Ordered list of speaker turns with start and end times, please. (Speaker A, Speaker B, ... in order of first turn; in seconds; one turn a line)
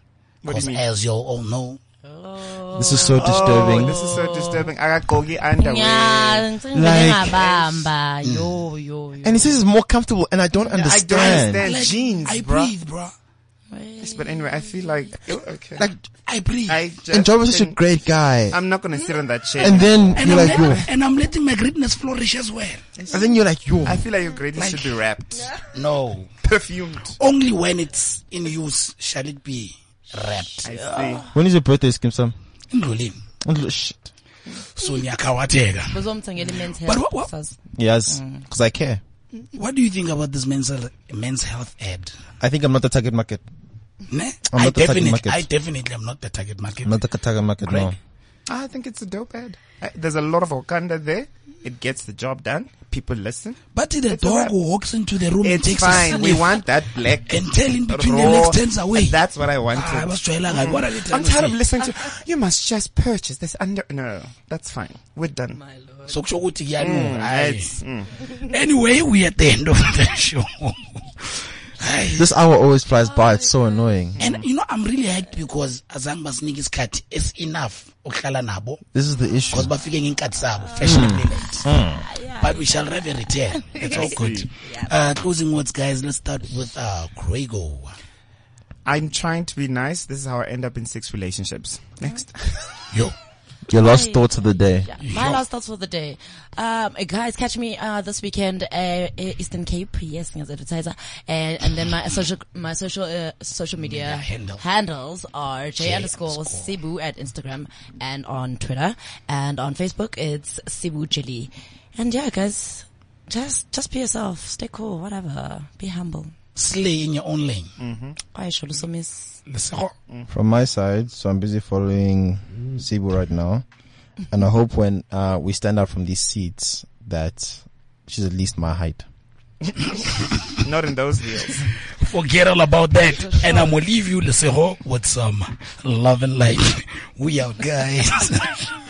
Speaker A: 0.4-0.8
Speaker B: 0.5-1.8
Speaker C: 2.0-4.7
Speaker D: 2.8-4.0
Speaker A: 3.1-6.5
Speaker C: 5.6-9.6
Speaker D: 6.7-7.5
Speaker A: 7.1-7.9
Speaker B: 8.2-8.6
Speaker D: 9.2-11.7
Speaker A: 10.7-12.7
Speaker B: 11.1-13.1
Speaker C: 13.7-14.7
Speaker A: 14.0-15.9
Speaker D: 15.8-16.0
Speaker B: 16.3-16.9
Speaker A: 16.7-17.9
Speaker D: 17.1-18.6
Speaker A: 18.5-20.9
Speaker D: 19.6-20.8
Speaker B: 20.2-22.8
Speaker D: 23.1-24.1
Speaker A: 23.9-25.5
Speaker B: 24.6-24.9
Speaker B: 25.7-26.3
Speaker A: 26.4-27.2
Speaker B: 27.2-30.7
Speaker C: 30.6-31.3
Speaker A: 30.6-31.3
Speaker D: 31.3-32.4
Speaker B: 32.7-33.2
Speaker D: 33.4-34.1
Speaker B: 34.8-36.0
Speaker C: 35.9-37.6
Speaker B: 36.8-37.3
Speaker D: 37.8-39.0
Speaker C: 38.1-38.4
Speaker B: 39.5-42.1
Speaker D: 42.4-43.4
Speaker B: 44.1-46.9
Speaker D: 44.5-45.5
Speaker D: 46.8-48.0
Speaker A: 48.5-54.5
Speaker B: 53.8-56.6
Speaker A: 55.4-65.6
Speaker B: 57.3-59.2
Speaker B: 59.7-61.6
Speaker C: 65.6-66.2
Speaker B: 66.1-67.8
Speaker A: 66.8-68.1
Speaker B: 68.3-72.3
Speaker D: 72.2-74.2
Speaker C: 72.9-73.8
Speaker A: 74.2-74.5
Speaker B: 74.2-78.8
Speaker D: 78.9-79.7
Speaker B: 79.5-81.7
Speaker C: 80.5-81.1
Speaker D: 80.8-82.0
Speaker C: 81.9-83.0
Speaker B: 82.4-87.9
Speaker C: 83.6-84.9
Speaker A: 83.8-84.5
Speaker A: 88.9-92.7
Speaker D: 93.7-94.9
Speaker C: 93.8-116.3
Speaker B: 95.0-95.4
Speaker B: 103.8-104.6
Speaker B: 105.8-106.8
Speaker B: 116.6-117.7
Speaker A: 117.8-118.2
Speaker C: 118.3-119.4
Speaker B: 119.5-119.9
Speaker D: 120.3-123.7
Speaker D: 124.3-129.1
Speaker A: 130.6-131.7
Speaker B: 132.0-138.7